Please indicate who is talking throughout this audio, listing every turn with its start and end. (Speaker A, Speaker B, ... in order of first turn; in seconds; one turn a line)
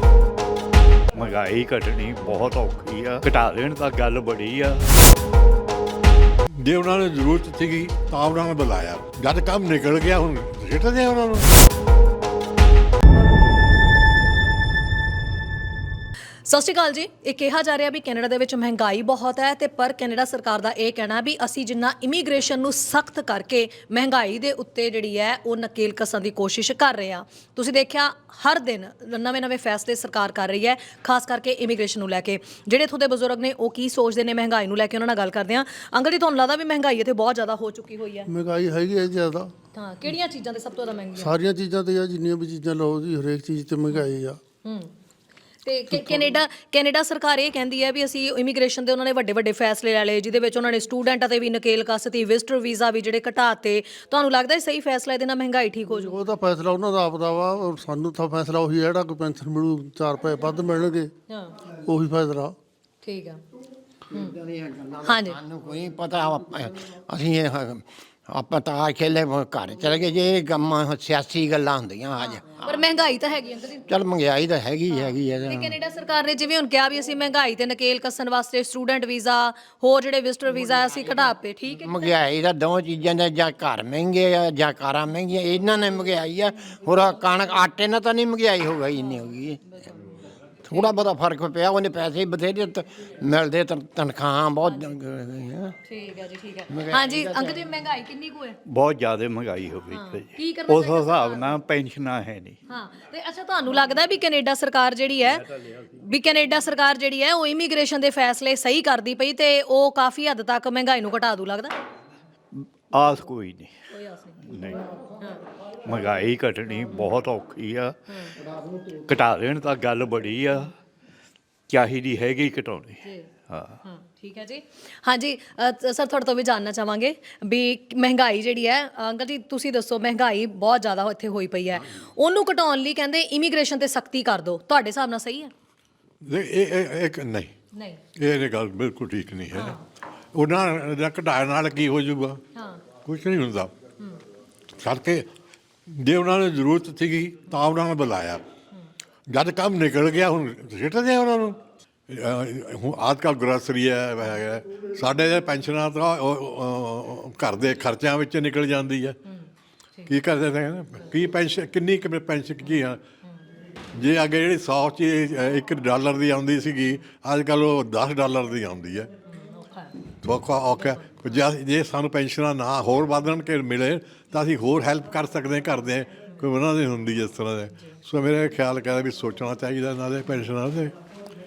Speaker A: 1.1-4.7
Speaker B: 6.6-11.5
Speaker C: 16.5-38.3
Speaker D: 38.3-39.5
Speaker C: 39.7-41.3
Speaker D: 41.1-44.4
Speaker C: 44.6-44.9
Speaker C: 45.6-56.1
Speaker D: 45.9-46.3
Speaker D: 56.0-61.1
Speaker D: 61.8-62.5
Speaker C: 63.0-63.4
Speaker C: 64.1-64.4
Speaker E: 64.5-72.3
Speaker C: 65.0-65.4
Speaker C: 72.2-74.0
Speaker E: 73.9-75.5
Speaker C: 74.9-82.1
Speaker E: 81.8-89.6
Speaker C: 86.9-87.3
Speaker C: 88.9-89.9
Speaker C: 90.7-91.0
Speaker E: 90.7-95.7
Speaker C: 94.6-95.0
Speaker C: 95.8-98.6
Speaker E: 96.8-97.5
Speaker A: 98.7-102.5
Speaker C: 99.9-101.6
Speaker C: 102.7-105.4
Speaker C: 105.9-111.8
Speaker A: 112.8-113.7
Speaker C: 113.9-114.4
Speaker A: 114.5-114.8
Speaker A: 115.9-117.9
Speaker A: 119.0-120.7
Speaker A: 121.7-123.8
Speaker C: 123.0-123.3
Speaker C: 123.8-135.5
Speaker B: 136.2-137.5
Speaker C: 137.8-138.0
Speaker B: 138.2-139.8
Speaker B: 140.3-142.4
Speaker C: 142.5-142.8
Speaker B: 143.0-143.7
Speaker B: 144.8-145.3
Speaker B: 145.9-148.4
Speaker B: 149.3-151.6
Speaker B: 152.1-159.2
Speaker B: 160.1-163.0
Speaker B: 163.9-169.1
Speaker C: 169.3-169.9
Speaker B: 170.2-180.9
Speaker C: 170.7-171.4